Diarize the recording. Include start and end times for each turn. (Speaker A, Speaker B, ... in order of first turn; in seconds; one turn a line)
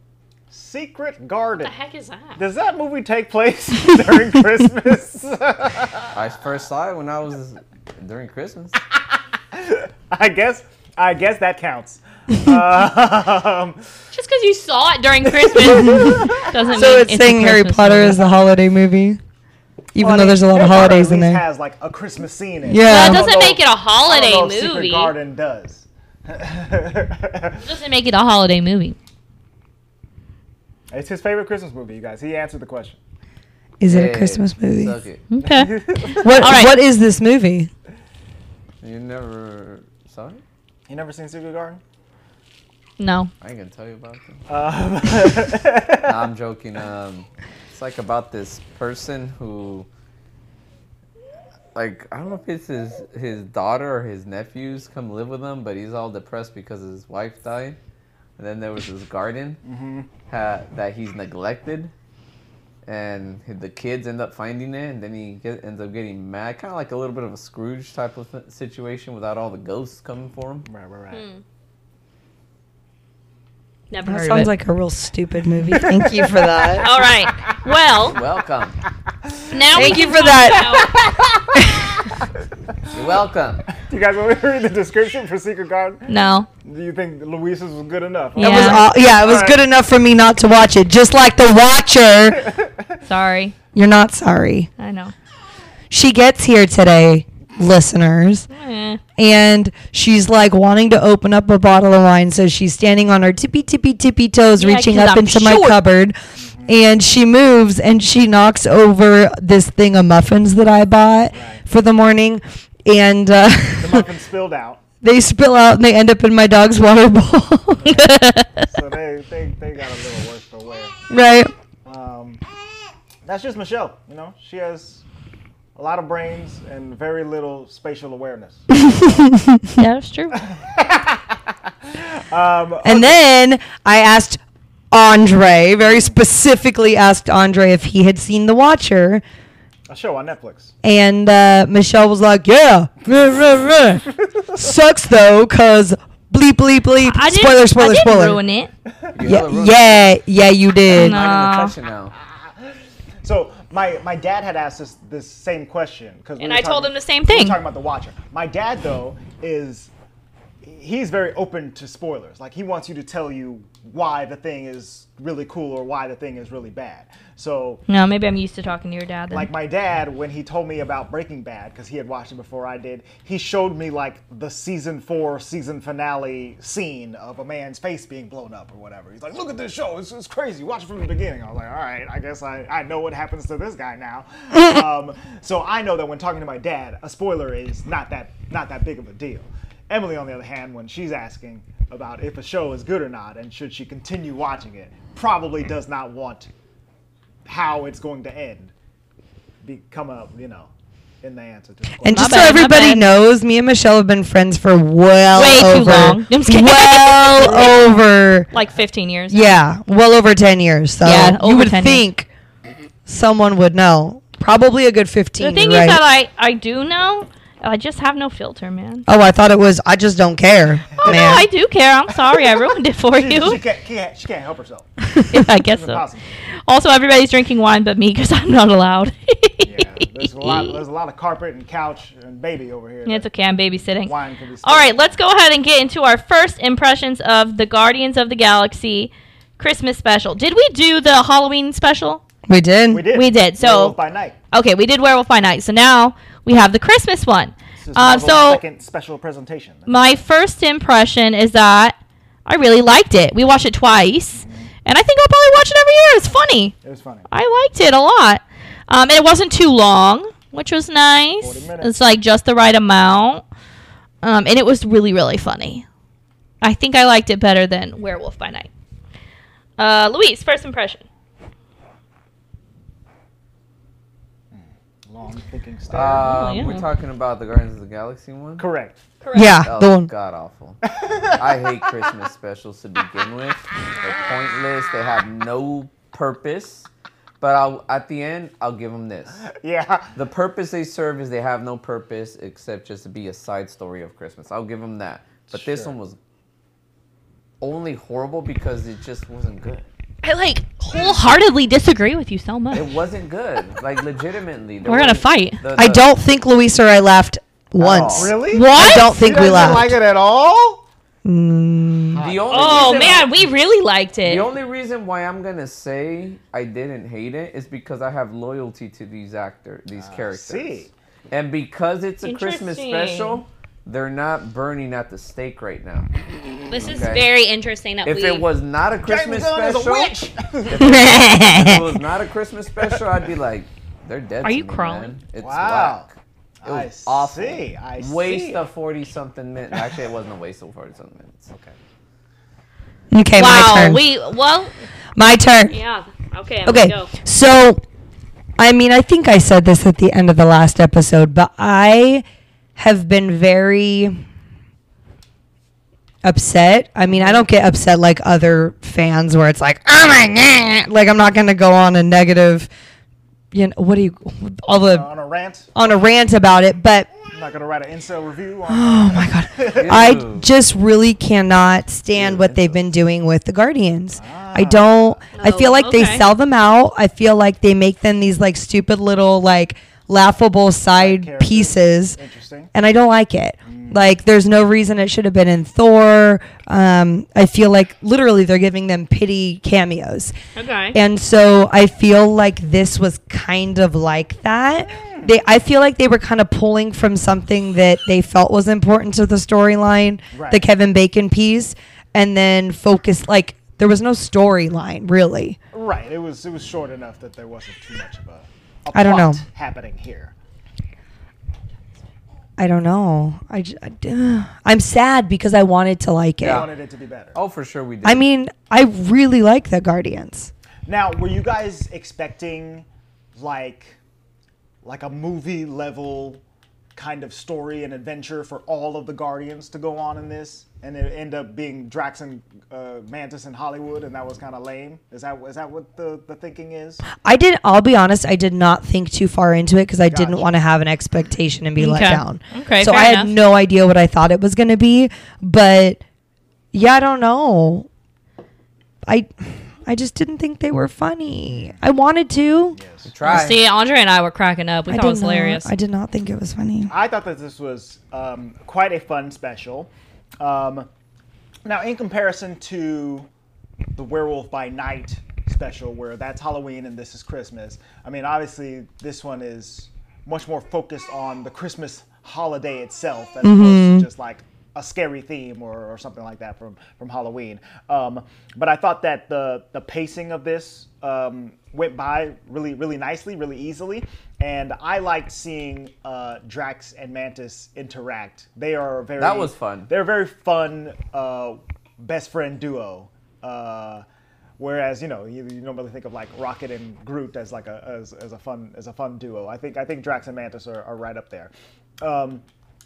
Speaker A: 0.5-1.7
Speaker B: 1.6-2.4
Speaker A: 2.4-6.1
Speaker C: 6.1-8.8
Speaker A: 9.5-13.9
Speaker B: 14.1-18.2
Speaker A: 15.4-17.0
Speaker D: 15.9-19.2
Speaker D: 19.9-21.4
Speaker A: 20.0-27.7
Speaker D: 22.6-23.3
Speaker B: 22.9-25.1
Speaker B: 27.6-29.0
Speaker A: 30.9-33.0
Speaker D: 33.8-35.0
Speaker C: 33.9-35.2
Speaker B: 35.3-36.8
Speaker A: 35.4-36.6
Speaker D: 36.2-37.7
Speaker C: 38.8-40.4
Speaker A: 40.9-41.8
Speaker B: 43.0-43.3
Speaker C: 43.4-44.4
Speaker A: 44.5-46.1
Speaker C: 46.0-49.9
Speaker C: 51.8-57.8
Speaker C: 58.4-59.6
Speaker A: 59.6-60.1
Speaker C: 60.3-61.9
Speaker C: 62.9-70.7
Speaker A: 70.7-71.2
Speaker B: 71.1-71.4
Speaker B: 73.9-74.5
Speaker D: 74.0-76.9
Speaker A: 75.7-76.9
Speaker B: 76.8-78.2
Speaker C: 78.1-78.8
Speaker A: 79.2-82.3
Speaker B: 79.5-81.0
Speaker D: 79.7-80.8
Speaker D: 81.6-81.9
Speaker C: 82.9-83.7
Speaker A: 83.8-89.6
Speaker B: 86.1-86.5
Speaker B: 88.4-88.9
Speaker D: 88.4-92.5
Speaker A: 92.4-92.9
Speaker B: 93.0-93.5
Speaker D: 93.7-94.7
Speaker B: 94.8-95.1
Speaker D: 95.9-98.5
Speaker B: 98.5-99.0
Speaker D: 99.2-106.2
Speaker B: 104.5-105.8
Speaker A: 106.4-106.8
Speaker D: 106.7-114.1
Speaker A: 111.3-111.6
Speaker A: 113.8-114.8
Speaker D: 115.0-117.9
Speaker A: 117.8-120.9
Speaker B: 117.8-118.6
Speaker D: 121.1-121.5
Speaker A: 121.8-122.4
Speaker A: 123.2-125.0
Speaker A: 125.8-129.3
Speaker D: 128.8-129.8
Speaker B: 129.8-130.4
Speaker A: 130.3-133.2
Speaker D: 132.8-134.4
Speaker D: 134.9-139.2
Speaker A: 135.8-136.2
Speaker A: 139.9-140.7
Speaker D: 140.8-148.4
Speaker B: 147.0-148.7
Speaker C: 149.1-150.1
Speaker D: 149.2-151.2
Speaker C: 150.9-152.1
Speaker B: 150.9-151.8
Speaker A: 152.2-159.9
Speaker B: 156.4-157.6
Speaker A: 160.6-167.8
Speaker B: 167.9-169.5
Speaker A: 169.3-196.5
Speaker A: 197.4-198.7
Speaker A: 199.6-200.7
Speaker A: 201.2-202.6
Speaker D: 202.0-208.5
Speaker B: 202.1-203.0
Speaker B: 205.3-208.0
Speaker B: 208.5-209.5
Speaker D: 209.3-212.3
Speaker B: 211.0-212.0
Speaker D: 213.1-216.0
Speaker B: 215.4-219.1
Speaker D: 219.1-221.5
Speaker A: 221.0-221.4
Speaker B: 221.0-223.6
Speaker A: 223.1-226.2
Speaker B: 225.3-226.0
Speaker B: 226.7-230.8
Speaker A: 229.6-233.3
Speaker B: 233.1-242.2
Speaker A: 234.1-235.2
Speaker D: 242.5-243.1
Speaker A: 242.9-244.4
Speaker B: 243.1-244.0
Speaker B: 244.5-248.6
Speaker A: 247.8-250.2
Speaker B: 249.9-256.8
Speaker A: 254.3-254.7
Speaker A: 256.8-257.3
Speaker B: 257.3-263.4
Speaker A: 261.4-262.0
Speaker B: 264.2-265.9
Speaker B: 266.6-268.7
Speaker B: 269.8-271.0
Speaker A: 274.5-276.8
Speaker C: 275.9-278.7
Speaker B: 276.3-276.8
Speaker A: 278.6-279.0
Speaker B: 279.2-279.6
Speaker D: 279.3-280.1
Speaker C: 279.6-280.8
Speaker A: 280.9-281.6
Speaker C: 281.4-286.9
Speaker C: 287.4-289.4
Speaker A: 289.5-290.1
Speaker C: 290.1-296.2
Speaker A: 295.5-296.0
Speaker C: 297.6-299.9
Speaker B: 300.2-302.9
Speaker A: 300.9-301.2
Speaker C: 302.7-306.1
Speaker B: 304.8-305.6
Speaker D: 305.8-310.0
Speaker C: 307.8-308.4
Speaker A: 307.9-310.8
Speaker B: 308.5-309.1
Speaker D: 311.2-312.2
Speaker A: 312.1-313.4
Speaker C: 312.2-313.5
Speaker B: 312.5-314.5
Speaker C: 314.2-326.1
Speaker A: 319.9-320.9
Speaker B: 322.2-323.4
Speaker B: 326.7-328.4
Speaker C: 326.8-327.2
Speaker C: 328.1-330.2
Speaker A: 329.0-331.1
Speaker C: 330.7-341.5
Speaker D: 330.8-331.9
Speaker B: 334.4-335.1
Speaker A: 335.4-336.1
Speaker A: 336.6-338.6
Speaker A: 341.5-341.8
Speaker D: 343.1-344.0
Speaker B: 343.4-344.7
Speaker D: 345.2-345.8
Speaker B: 345.7-347.1
Speaker D: 346.7-347.8
Speaker D: 348.6-352.2
Speaker D: 352.8-354.2
Speaker D: 356.2-362.7
Speaker A: 357.1-357.4
Speaker D: 363.5-365.1
Speaker A: 364.8-366.0
Speaker D: 365.8-367.1
Speaker A: 367.3-370.2
Speaker D: 368.7-382.2
Speaker C: 369.7-370.5
Speaker A: 372.1-372.8
Speaker A: 374.1-375.2
Speaker B: 375.4-376.2
Speaker A: 380.9-382.7
Speaker D: 382.7-390.3
Speaker A: 383.7-384.1
Speaker B: 390.6-391.0
Speaker D: 390.9-405.6
Speaker A: 394.9-395.4
Speaker A: 400.3-400.6
Speaker A: 405.7-410.3
Speaker D: 408.9-409.4
Speaker D: 412.6-416.7
Speaker C: 416.4-416.7
Speaker A: 416.4-417.4
Speaker C: 417.3-418.2
Speaker D: 418.0-420.5
Speaker A: 420.9-424.0
Speaker A: 424.8-426.4
Speaker A: 426.9-437.0
Speaker D: 437.2-446.0
Speaker A: 440.1-440.6
Speaker B: 441.8-443.3
Speaker D: 446.7-447.9
Speaker D: 449.1-452.8
Speaker A: 451.5-451.8
Speaker A: 452.8-453.1
Speaker C: 453.1-453.6
Speaker B: 453.2-455.7
Speaker D: 454.9-456.9
Speaker A: 456.9-460.9
Speaker A: 461.6-463.3
Speaker A: 463.9-494.0
Speaker D: 473.4-474.1
Speaker C: 489.2-489.9
Speaker A: 494.6-502.4